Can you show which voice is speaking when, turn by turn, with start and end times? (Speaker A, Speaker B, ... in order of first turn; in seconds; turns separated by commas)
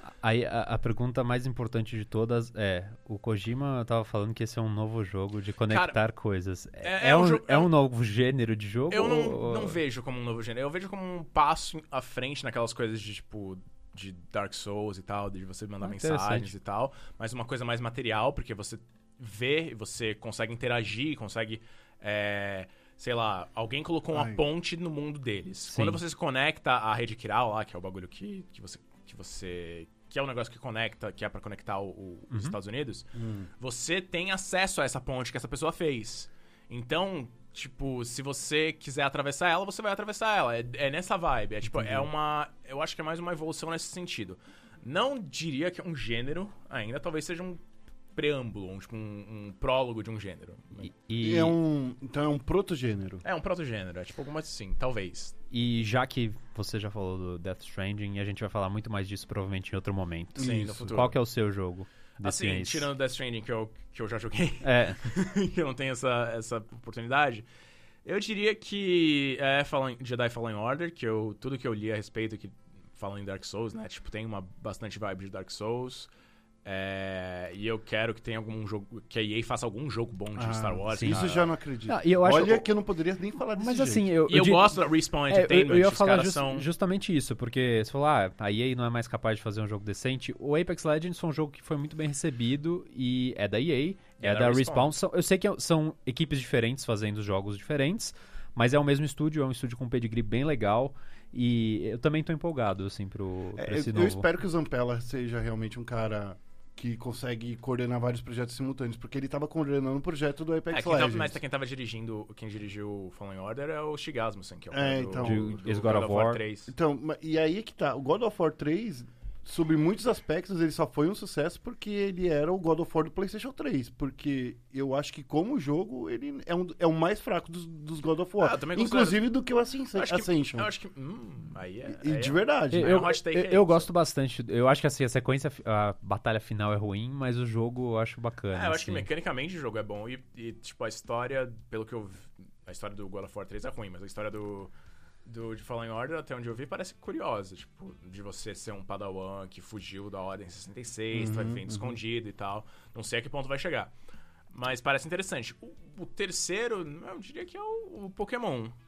Speaker A: 0.2-9.8, Speaker B: 5.7-6.0, Speaker B: 6.8-7.7, Speaker B: 8.9-33.1, Speaker A: 15.8-16.5, Speaker C: 24.1-24.4, Speaker A: 25.7-26.0, Speaker A: 32.3-32.6, Speaker C: 33.2-33.5, Speaker B: 33.6-47.6, Speaker B: 48.1-50.9, Speaker A: 50.8-51.5, Speaker C: 51.2-53.2, Speaker B: 53.2-55.4, Speaker A: 55.5-62.9, Speaker C: 60.4-61.0, Speaker B: 60.4-61.2, Speaker B: 62.2-67.5, Speaker A: 64.6-65.0, Speaker B: 68.0-76.1, Speaker B: 76.7-81.5, Speaker C: 80.4-84.1, Speaker A: 80.9-81.2, Speaker A: 81.9-82.7, Speaker A: 83.6-104.3, Speaker B: 84.3-86.7, Speaker B: 94.2-94.9, Speaker C: 103.6-111.4, Speaker B: 110.7-116.7, Speaker C: 114.7-115.5, Speaker A: 115.2-116.4, Speaker C: 116.7-130.7, Speaker B: 128.4-129.2, Speaker B: 129.9-133.9, Speaker C: 131.9-133.0, Speaker A: 132.7-139.1, Speaker B: 138.5-144.7, Speaker B: 145.2-153.9, Speaker C: 151.1-152.0, Speaker B: 154.5-158.8